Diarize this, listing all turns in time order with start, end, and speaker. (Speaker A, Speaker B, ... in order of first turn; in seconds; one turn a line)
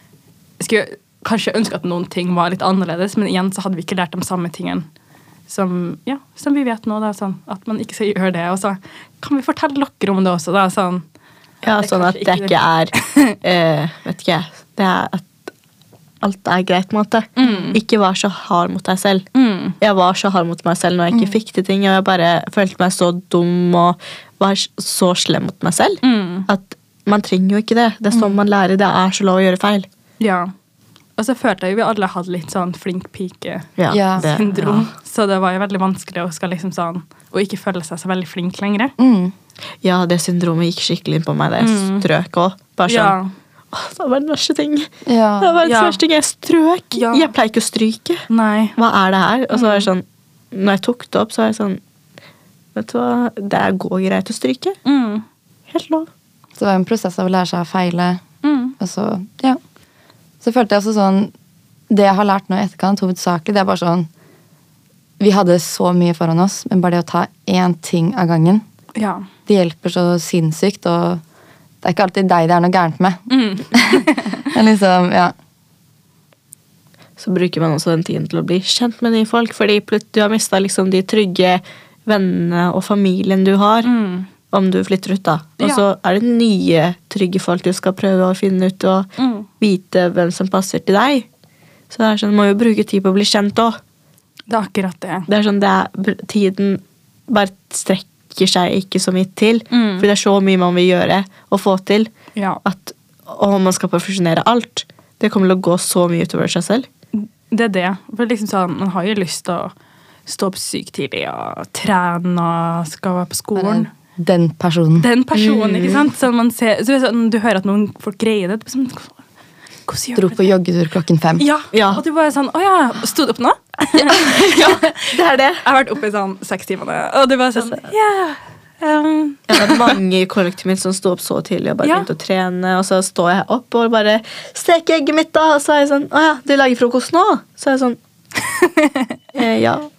Speaker A: 0.6-4.9
Speaker A: 5.5-11.1
Speaker B: 11.6-15.4
Speaker A: 11.8-13.3
Speaker B: 16.2-19.2
Speaker A: 17.4-17.8
Speaker A: 19.3-19.8
Speaker B: 19.8-29.9
Speaker A: 26.0-26.5
Speaker A: 30.2-30.5
Speaker A: 31.2-38.9
Speaker B: 33.8-34.9
Speaker C: 33.9-34.3
Speaker C: 39.0-39.3
Speaker B: 39.8-43.2
Speaker A: 41.6-42.1
Speaker A: 42.9-43.3
Speaker B: 43.7-44.9
Speaker C: 45.1-45.6
Speaker B: 45.4-51.8
Speaker A: 45.6-46.0
Speaker A: 46.9-47.3
Speaker A: 48.3-48.8
Speaker A: 49.5-49.9
Speaker B: 52.8-54.8
Speaker A: 54.8-55.2
Speaker B: 55.7-56.1
Speaker C: 56.6-58.2
Speaker A: 58.4-58.8
Speaker C: 58.8-59.6
Speaker C: 60.4-61.3
Speaker C: 61.9-64.1
Speaker C: 65.2-68.6
Speaker A: 69.0-69.3
Speaker C: 69.5-71.2
Speaker C: 71.8-75.3
Speaker A: 73.3-74.5
Speaker B: 77.2-83.9
Speaker A: 83.8-84.3
Speaker B: 84.5-91.3
Speaker A: 89.2-89.5
Speaker B: 91.9-93.8
Speaker A: 94.5-95.3
Speaker B: 95.3-102.1
Speaker A: 99.7-100.1
Speaker A: 102.4-102.6
Speaker B: 102.6-106.9
Speaker A: 107.1-109.7
Speaker A: 110.3-113.9
Speaker C: 113.5-115.1
Speaker A: 115.0-119.2
Speaker B: 115.3-116.1
Speaker A: 119.9-120.5
Speaker C: 120.2-121.5
Speaker A: 121.4-130.0
Speaker B: 121.7-122.0
Speaker C: 124.0-124.8
Speaker B: 125.0-125.6
Speaker B: 129.5-138.0
Speaker A: 131.8-132.1
Speaker A: 138.4-139.1
Speaker B: 139.3-139.9